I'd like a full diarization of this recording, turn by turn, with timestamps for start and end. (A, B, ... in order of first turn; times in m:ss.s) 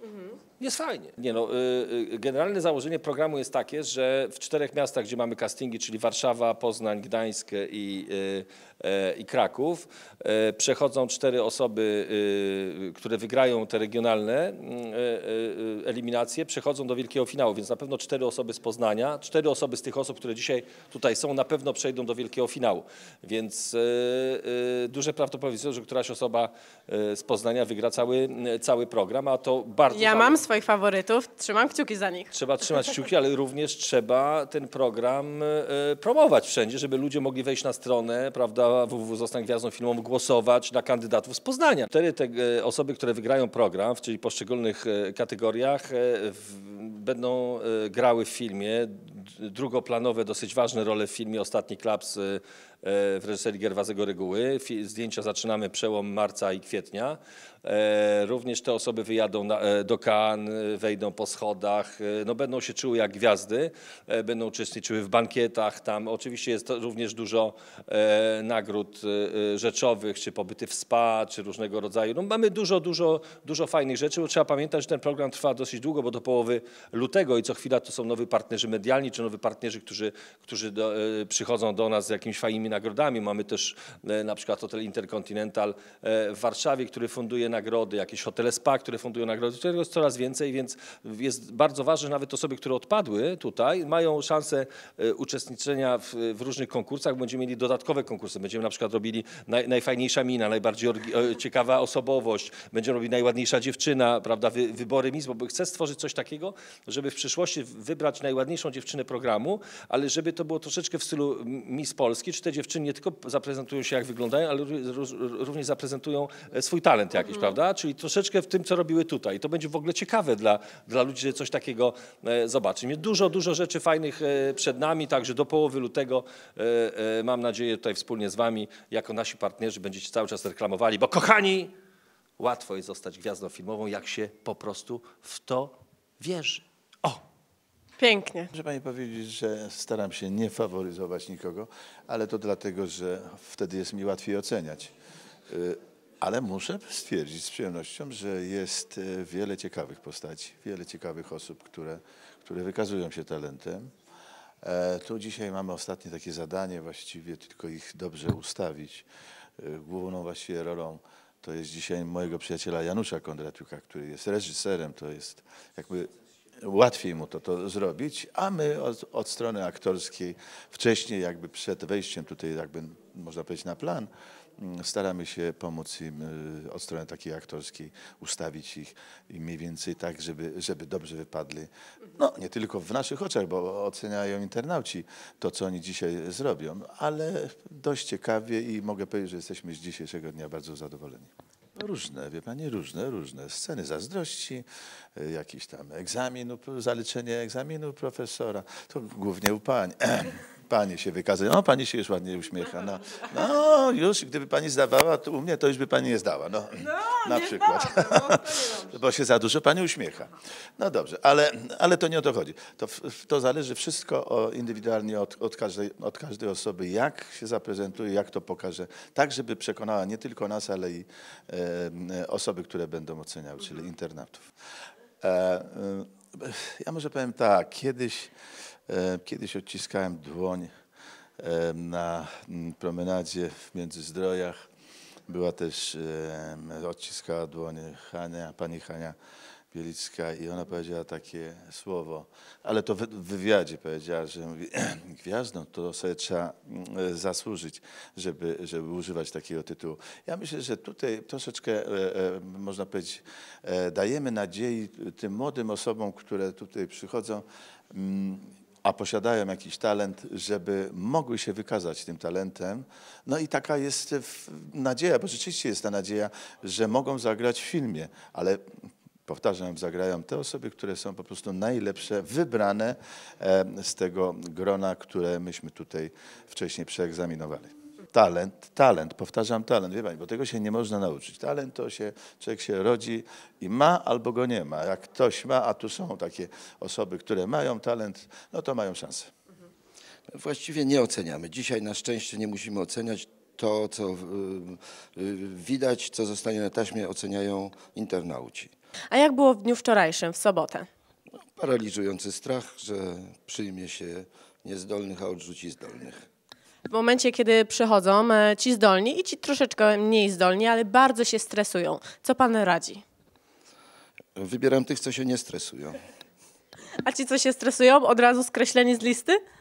0:00.6-0:30.4 A
0:29.9-0:32.3 B
0:32.3-2:11.7 A
2:12.4-2:17.2 A
2:18.0-2:18.5 B
2:18.5-2:24.9 C
2:25.5-2:33.9 C
2:34.6-2:39.0 C
2:39.6-2:46.1 C
2:46.6-3:44.5 C
3:27.9-3:28.4 B
3:45.2-3:48.3 C
3:48.9-3:50.7 C
3:51.4-3:54.6 C
3:55.3-3:59.2 C
3:59.7-4:28.7 C
4:29.3-4:49.3 C
4:50.3-4:58.7 D
4:59.1-5:00.9 B
5:01.6-5:06.2 D
5:06.9-5:13.0 B
5:14.4-5:16.0 D
5:17.0-5:19.4 B